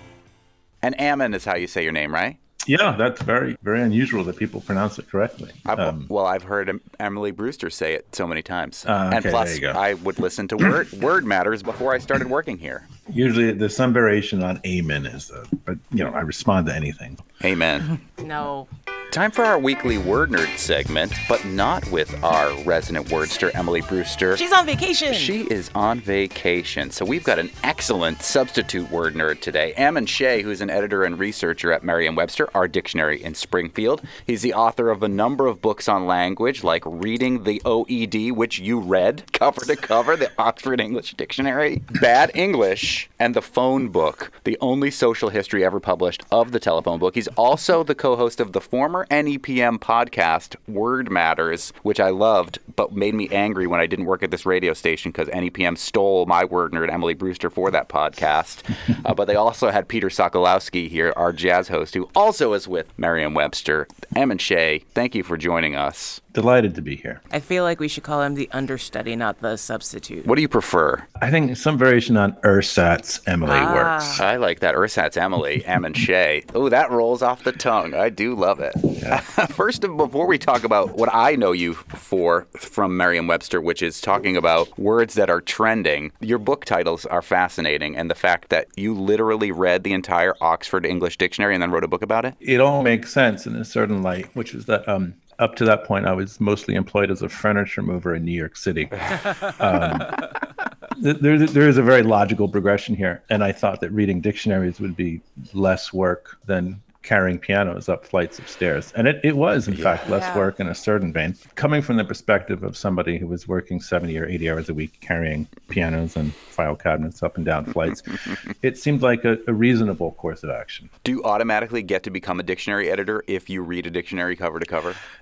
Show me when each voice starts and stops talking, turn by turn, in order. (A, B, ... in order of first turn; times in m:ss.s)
0:00.8-0:02.4 A
0:02.6-0:06.1 B
0:05.6-0:12.9 A
0:08.9-0:09.8 B
0:13.1-0:17.2 B
0:17.4-0:17.9 A
0:18.2-0:18.7 C
0:19.1-0:24.4 A
0:24.4-0:25.4 C
0:25.1-1:06.2 A
1:06.3-1:07.2 B
1:07.3-1:10.3 C
1:10.2-1:11.0 A
1:11.2-1:14.2 B
1:13.4-1:14.2 C
1:14.2-1:32.4 A
1:19.0-1:19.2 B
1:32.4-1:40.2 B
1:40.9-2:00.9 B
1:49.7-1:50.1 A
1:50.2-1:50.5 C
2:01.0-2:05.0 A